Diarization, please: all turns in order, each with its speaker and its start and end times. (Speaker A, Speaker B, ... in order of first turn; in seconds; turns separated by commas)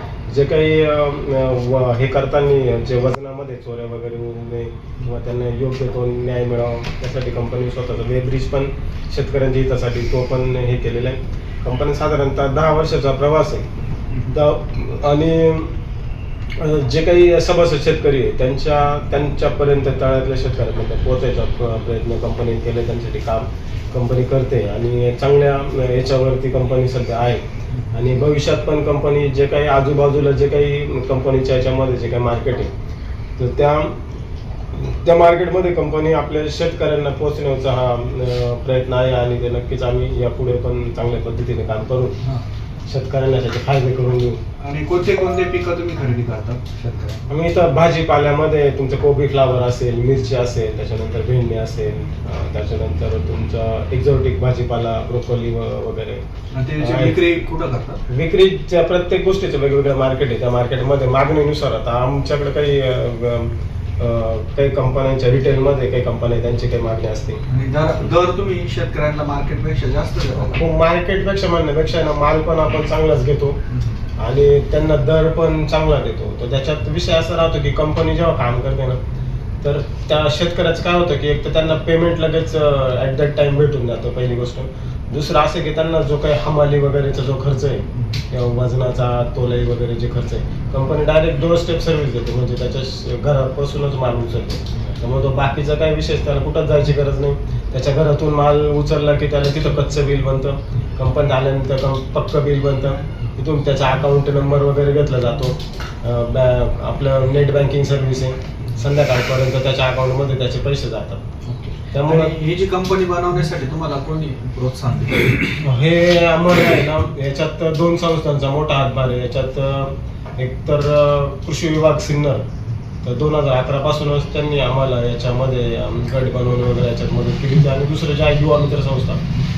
Speaker A: 0.3-13.7, Speaker A: 14.3-15.7, Speaker A: 16.6-32.7, Speaker A: 33.4-34.0, Speaker A: 34.7-42.1, Speaker A: 42.9-44.4, Speaker B: 44.6-47.2, Speaker A: 47.3-56.2, Speaker B: 56.5-58.0, Speaker A: 56.8-57.2, Speaker A: 58.1-67.4, Speaker B: 67.5-70.6, Speaker A: 70.3-73.6, Speaker A: 74.2-79.0, Speaker A: 79.6-111.2, Speaker B: 111.4-115.6, Speaker A: 111.9-112.4, Speaker A: 115.6-122.4, Speaker A: 123.0-129.2